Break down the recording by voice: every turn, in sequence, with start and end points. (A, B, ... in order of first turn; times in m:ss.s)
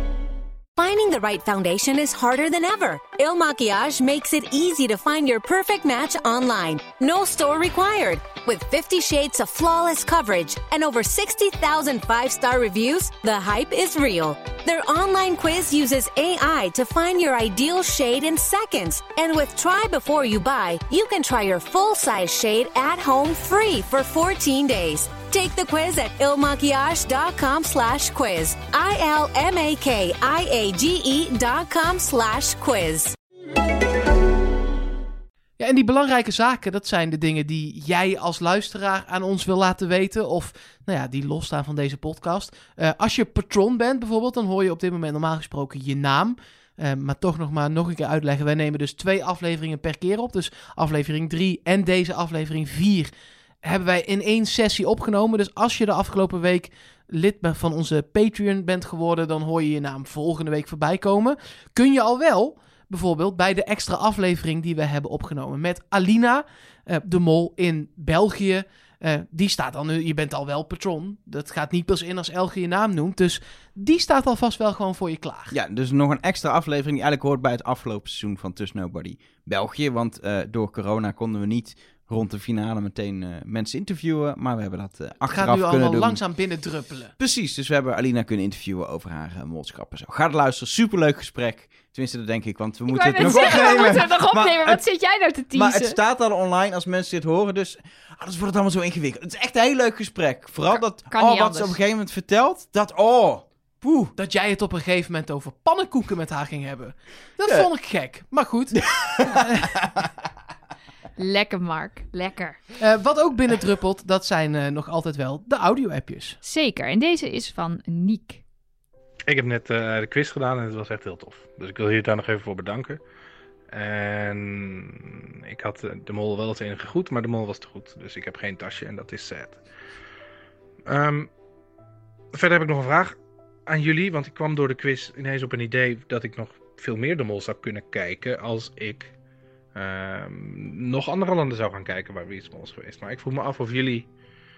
0:00.8-0:33.2 A
0:35.6-0:53.1 B
0:53.6-1:15.6 B
1:15.5-1:26.2 C
1:25.3-1:27.1 B
1:27.2-1:34.8 C
1:32.9-1:36.0 D
1:35.5-1:44.2 C
1:41.1-1:41.8 D
1:44.2-1:49.8 B
1:48.8-1:50.1 C
1:51.2-1:52.6 D
1:52.8-1:56.4 B
1:56.4-1:58.4 D
1:59.3-2:03.0 E
2:03.7-2:09.6 E
2:10.8-2:11.3 E
2:12.3-2:19.1 E
2:19.8-2:24.1 E